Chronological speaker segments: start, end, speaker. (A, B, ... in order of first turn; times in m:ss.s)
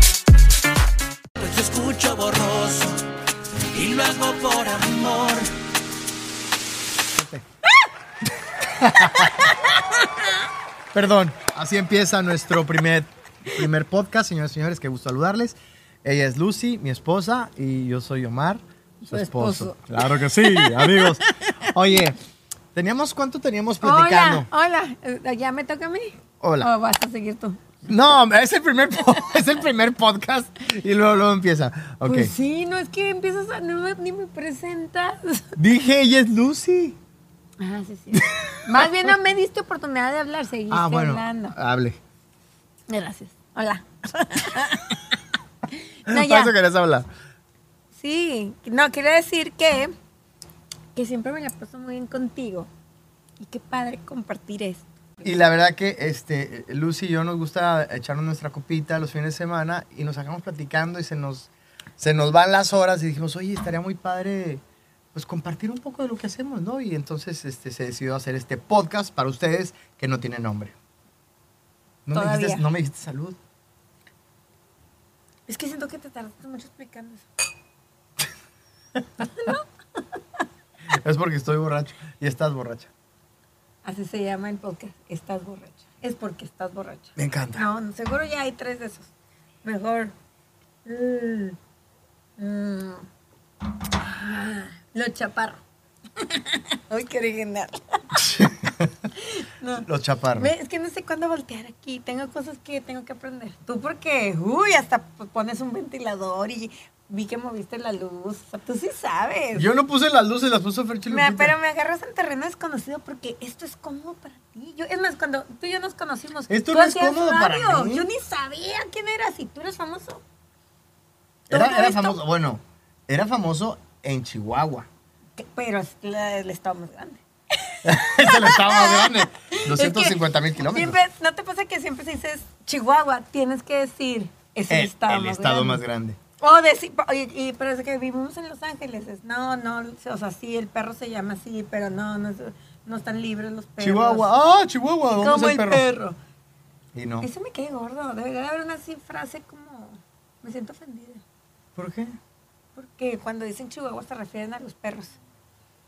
0:01.4-0:03.0 A
0:03.7-0:05.5 A
0:07.1-0:07.4 B
0:08.6-0:09.6 B
0:09.4-0:10.2 C
0:10.9-0:22.2 B
0:19.0-0:21.7 C
0:22.7-0:24.5 B
0:23.8-0:27.6 C
0:26.4-0:26.7 B
0:27.8-0:32.3 B
0:32.0-0:35.5 C
0:35.6-0:37.0 B
0:37.6-0:41.5 C
0:38.1-0:39.1 B
0:40.7-0:42.0 B
0:42.9-0:45.2 C
0:45.7-0:46.5 C
0:46.1-0:47.1 B
0:48.0-0:49.9 C
0:50.9-0:52.7 C
0:53.4-0:54.8 C
0:55.2-1:04.6 B
1:05.1-1:10.7 B
1:12.0-1:13.4 B
1:12.1-1:12.7 C
1:15.5-1:17.2 C
1:19.2-1:20.0 C
1:20.9-1:22.9 B
1:23.8-1:29.1 C
1:27.2-1:27.6 B
1:29.6-1:30.1 C
1:30.8-1:31.6 C
1:32.4-1:33.0 C
1:34.0-1:35.6 C
1:36.2-1:38.2 C
1:38.2-1:38.9 B
1:39.1-1:39.8 C
1:39.8-1:40.5 B
1:40.4-1:49.7 C
1:49.5-1:51.6 B
1:51.1-2:00.2 C
1:56.5-1:58.1 B
2:01.5-2:02.2 C
2:01.5-2:04.9 B
2:05.4-2:15.8 C
2:07.8-2:11.0 B
2:14.7-2:16.2 B
2:16.4-2:24.3 C
2:23.8-2:25.8 B
2:25.2-2:26.2 C
2:26.9-2:27.3 B
2:27.2-2:31.2 C
2:31.8-2:32.2 B
2:32.8-2:35.1 C